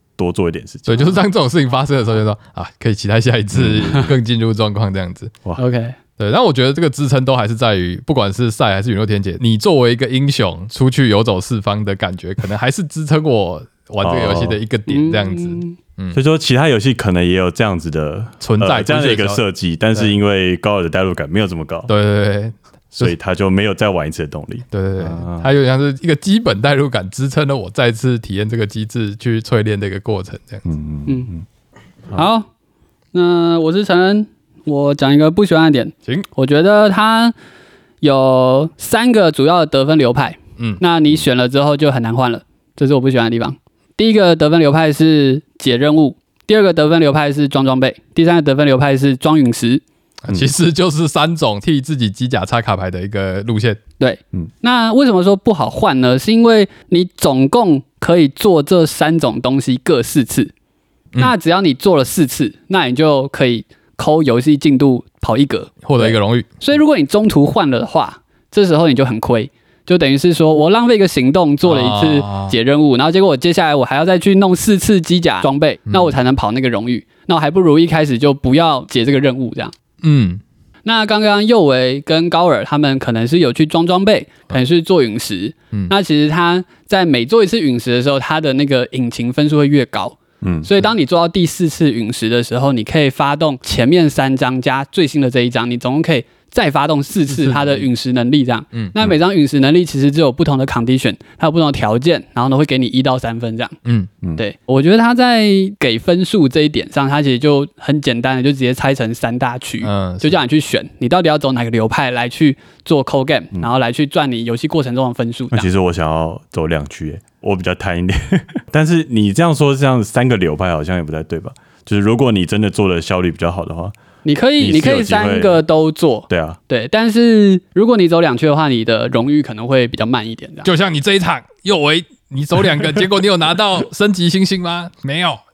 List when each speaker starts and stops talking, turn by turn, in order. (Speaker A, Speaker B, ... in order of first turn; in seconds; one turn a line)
Speaker A: 0.2-1.2
Speaker B: 0.9-5.3
Speaker A: 3.5-4.1
Speaker C: 5.6-6.0
Speaker B: 6.2-16.2
Speaker A: 14.0-14.6
Speaker C: 14.9-15.8
Speaker A: 16.1-21.9
Speaker B: 18.4-19.4
Speaker B: 21.9-23.1
Speaker A: 22.9-25.5
Speaker B: 24.7-30.6
Speaker A: 30.6-31.4
Speaker C: 32.1-32.5
Speaker C: 33.1-37.3
Speaker C: 38.0-49.8
Speaker B: 50.2-53.8
Speaker C: 54.0-60.5
Speaker C: 61.2-79.7
Speaker B: 65.8-66.5
Speaker B: 71.6-72.5
Speaker B: 75.9-76.2
Speaker B: 80.0-80.4
Speaker C: 80.8-103.8
Speaker A: 90.4-90.7
Speaker B: 97.3-97.8
Speaker B: 103.8-104.1
Speaker C: 104.4-115.7
Speaker B: 109.8-110.4
Speaker A: 115.5-123.9
Speaker C: 124.2-130.7
Speaker A: 124.6-125.6
Speaker A: 126.3-126.6
Speaker B: 130.6-135.4